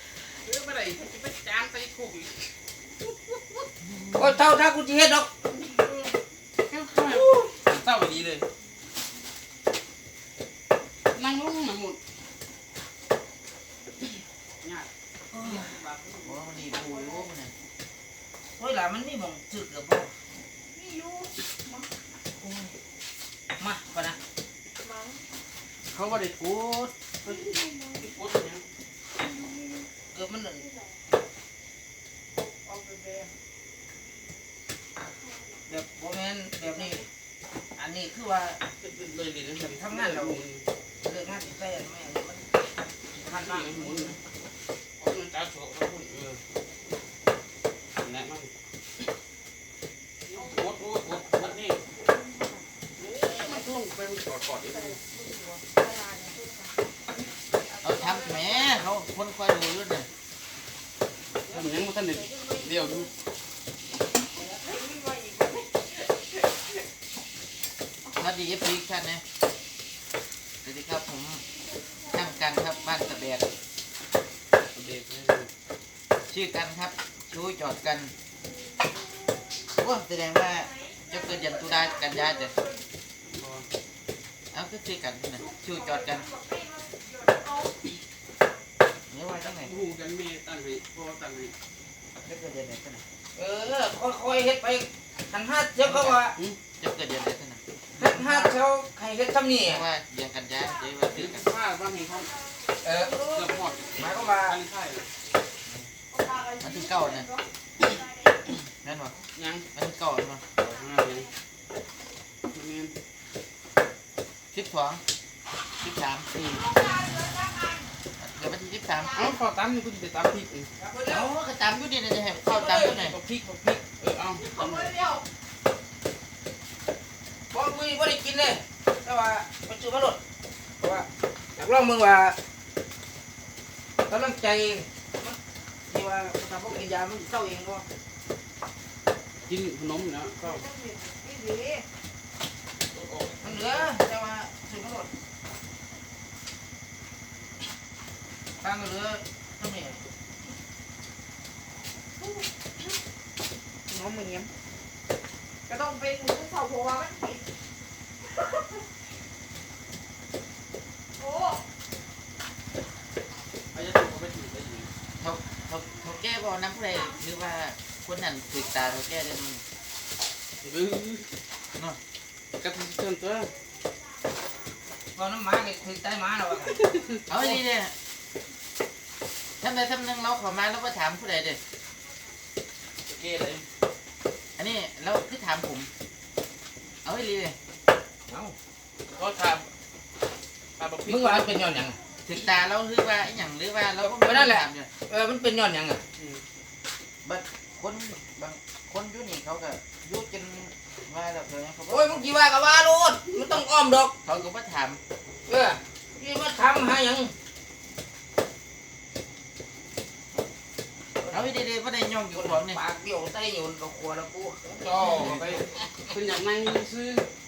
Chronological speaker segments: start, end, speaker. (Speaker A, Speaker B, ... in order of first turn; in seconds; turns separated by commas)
Speaker A: 0.4-2.5, Speaker B: 4.1-5.3, Speaker A: 5.7-6.1, Speaker A: 6.6-8.4, Speaker B: 7.0-7.5, Speaker A: 11.1-12.0, Speaker A: 14.6-14.9, Speaker B: 15.3-15.7, Speaker A: 15.4-16.3, Speaker C: 16.2-17.5, Speaker D: 16.7-17.2, Speaker B: 18.6-20.1, Speaker D: 20.7-21.9, Speaker B: 22.4-22.7, Speaker B: 23.6-24.2, Speaker D: 24.8-25.2, Speaker A: 25.9-26.4, Speaker B: 26.1-27.4, Speaker D: 27.2-28.1, Speaker A: 28.0-28.6, Speaker D: 29.2-29.9, Speaker B: 30.1-30.6, Speaker D: 32.4-33.3, Speaker B: 35.7-37.0, Speaker B: 37.8-38.6, Speaker A: 38.8-40.6, Speaker B: 39.6-40.4, Speaker B: 41.0-42.5, Speaker B: 43.1-44.2, Speaker A: 43.2-44.2, Speaker A: 45.0-46.4, Speaker A: 48.0-48.5, Speaker A: 50.3-51.8, Speaker D: 51.9-53.6, Speaker A: 53.0-55.0, Speaker D: 54.7-58.8, Speaker C: 57.8-60.1, Speaker A: 61.5-63.1, Speaker D: 61.5-63.1, Speaker D: 64.3-66.2, Speaker C: 68.1-69.2, Speaker C: 70.6-71.4, Speaker C: 72.1-73.5, Speaker A: 74.7-75.5, Speaker C: 76.3-78.1, Speaker C: 79.8-82.5, Speaker D: 80.9-82.8, Speaker A: 83.3-83.7, Speaker C: 84.5-86.3, Speaker D: 85.4-87.8, Speaker C: 89.1-89.7, Speaker A: 89.6-91.5, Speaker C: 92.2-93.0, Speaker B: 93.3-96.3, Speaker C: 95.8-96.2, Speaker C: 96.8-97.6, Speaker A: 98.0-98.5, Speaker B: 98.0-99.8, Speaker C: 99.6-101.5, Speaker A: 101.1-102.3, Speaker B: 102.8-103.4, Speaker D: 103.0-103.9, Speaker A: 103.1-105.0, Speaker B: 103.9-104.6, Speaker D: 106.1-108.2, Speaker C: 106.6-107.3, Speaker C: 108.8-109.1, Speaker A: 109.4-109.6, Speaker C: 109.7-110.4, Speaker A: 110.6-111.2, Speaker D: 110.6-111.2, Speaker A: 112.5-112.9, Speaker C: 114.5-115.0, Speaker C: 115.8-116.3, Speaker A: 116.3-116.6, Speaker D: 116.5-117.9, Speaker C: 118.2-119.3, Speaker A: 119.1-120.7, Speaker B: 120.8-121.3, Speaker C: 121.1-123.2, Speaker A: 122.5-124.9, Speaker B: 122.6-123.0, Speaker D: 124.4-125.2, Speaker B: 127.5-130.2, Speaker B: 130.8-132.4, Speaker B: 134.1-135.4, Speaker B: 135.9-137.8, Speaker A: 139.5-140.6, Speaker D: 140.4-141.8, Speaker A: 142.9-143.9, Speaker B: 143.4-145.1, Speaker B: 148.6-150.0, Speaker D: 152.2-152.9, Speaker D: 153.9-154.5, Speaker D: 155.7-157.4, Speaker D: 161.2-161.6, Speaker A: 163.7-164.9, Speaker C: 165.2-169.6, Speaker A: 170.6-171.3, Speaker A: 172.6-173.5, Speaker B: 175.1-176.9, Speaker A: 176.7-177.2, Speaker C: 177.3-177.9, Speaker C: 179.6-181.6, Speaker A: 183.1-183.6, Speaker C: 184.6-185.9, Speaker C: 187.0-187.6, Speaker B: 188.3-188.6, Speaker A: 189.1-189.7, Speaker A: 190.8-191.6, Speaker B: 191.1-192.0, Speaker C: 192.2-194.9, Speaker B: 194.0-196.0, Speaker C: 197.2-202.2, Speaker B: 201.9-204.1, Speaker C: 204.2-205.0, Speaker B: 205.5-207.3, Speaker B: 211.2-211.5, Speaker C: 211.3-212.8, Speaker B: 212.3-215.8, Speaker A: 214.8-217.3